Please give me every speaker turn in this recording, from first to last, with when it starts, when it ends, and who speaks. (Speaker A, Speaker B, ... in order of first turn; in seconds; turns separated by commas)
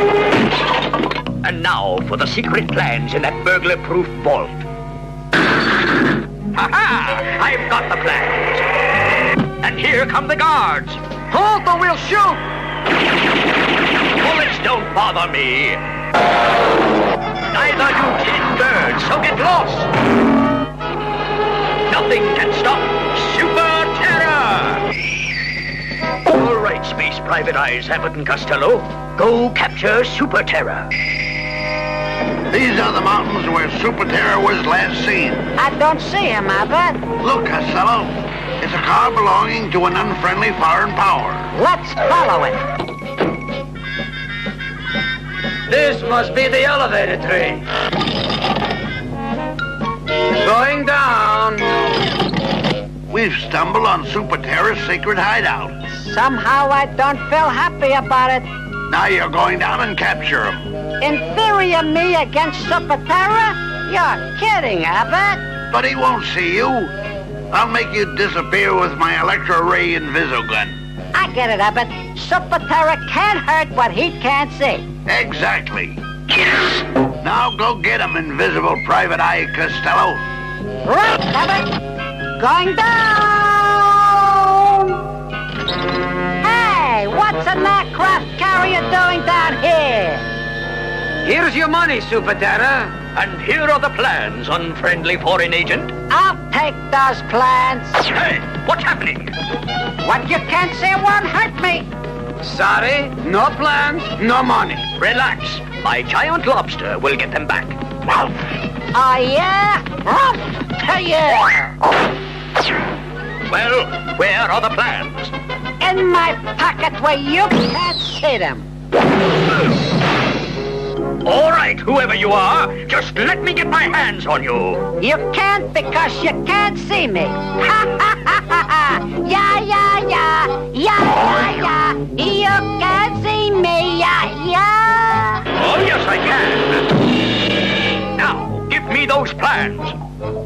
Speaker A: 1.4-4.7, Speaker A: 6.5-8.7, Speaker A: 9.6-11.0, Speaker B: 11.3-12.4, Speaker A: 14.2-15.8, Speaker A: 17.5-19.9, Speaker A: 21.9-24.9, Speaker A: 26.3-30.9, Speaker C: 32.5-35.5, Speaker D: 35.6-37.0, Speaker C: 37.2-41.5, Speaker D: 41.5-42.6, Speaker B: 45.7-47.6, Speaker B: 50.4-51.7, Speaker C: 53.1-55.7, Speaker D: 55.9-58.5, Speaker C: 58.9-60.7, Speaker D: 61.0-65.4, Speaker C: 65.7-66.9, Speaker C: 67.5-70.8, Speaker D: 71.1-74.8, Speaker C: 75.1-76.0, Speaker C: 77.2-80.2, Speaker D: 80.8-81.8, Speaker D: 82.4-85.0, Speaker D: 86.4-90.3, Speaker B: 91.2-93.0, Speaker A: 93.1-95.9, Speaker D: 96.1-98.0, Speaker A: 98.0-99.3, Speaker D: 100.0-101.9, Speaker B: 102.4-104.8, Speaker A: 104.9-108.3, Speaker D: 108.9-111.8, Speaker A: 113.5-115.3, Speaker D: 115.8-118.7, Speaker A: 121.2-124.9, Speaker D: 125.0-135.5, Speaker A: 135.5-137.0, Speaker A: 138.1-140.0